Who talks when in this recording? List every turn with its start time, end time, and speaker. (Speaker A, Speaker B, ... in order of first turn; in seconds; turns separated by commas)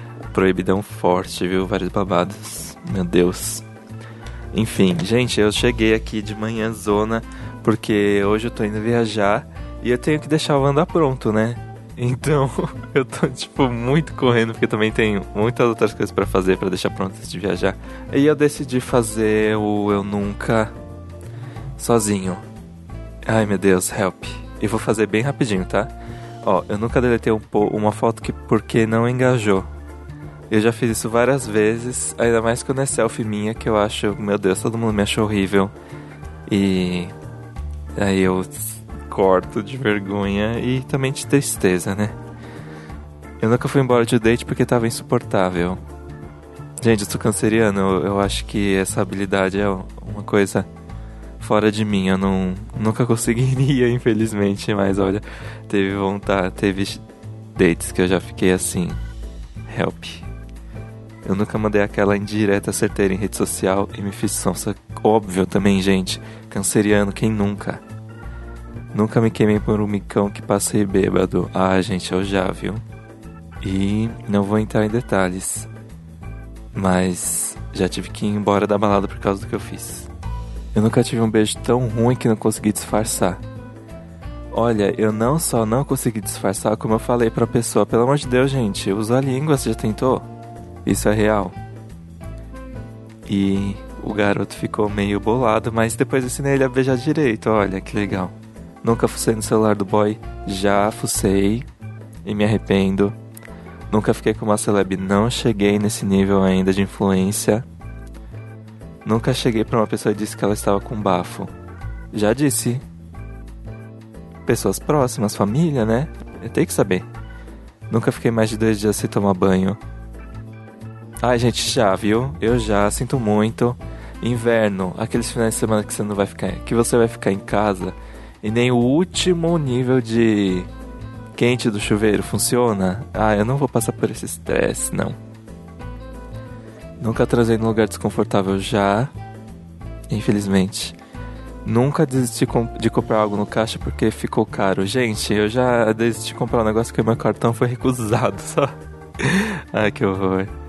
Speaker A: 0.3-3.6, Speaker A: 4.5-20.7, Speaker A: 21.8-22.4, Speaker A: 23.2-25.9, Speaker A: 26.4-29.7, Speaker A: 30.5-35.7, Speaker A: 36.5-37.1, Speaker A: 38.0-42.1, Speaker A: 43.4-45.8, Speaker A: 46.8-50.7, Speaker A: 51.4-57.0, Speaker A: 57.5-59.0, Speaker A: 59.7-60.2, Speaker A: 61.2-67.8, Speaker A: 68.9-72.8, Speaker A: 73.6-75.7, Speaker A: 76.7-80.1, Speaker A: 80.7-83.4, Speaker A: 84.5-90.2, Speaker A: 90.8-91.5, Speaker A: 93.3-101.7, Speaker A: 102.2-103.2, Speaker A: 103.9-107.6, Speaker A: 109.0-111.5, Speaker A: 112.1-112.8, Speaker A: 114.5-117.0, Speaker A: 117.9-119.8, Speaker A: 121.2-130.7, Speaker A: 131.4-135.2, Speaker A: 137.0-139.1, Speaker A: 140.1-140.9, Speaker A: 141.6-150.5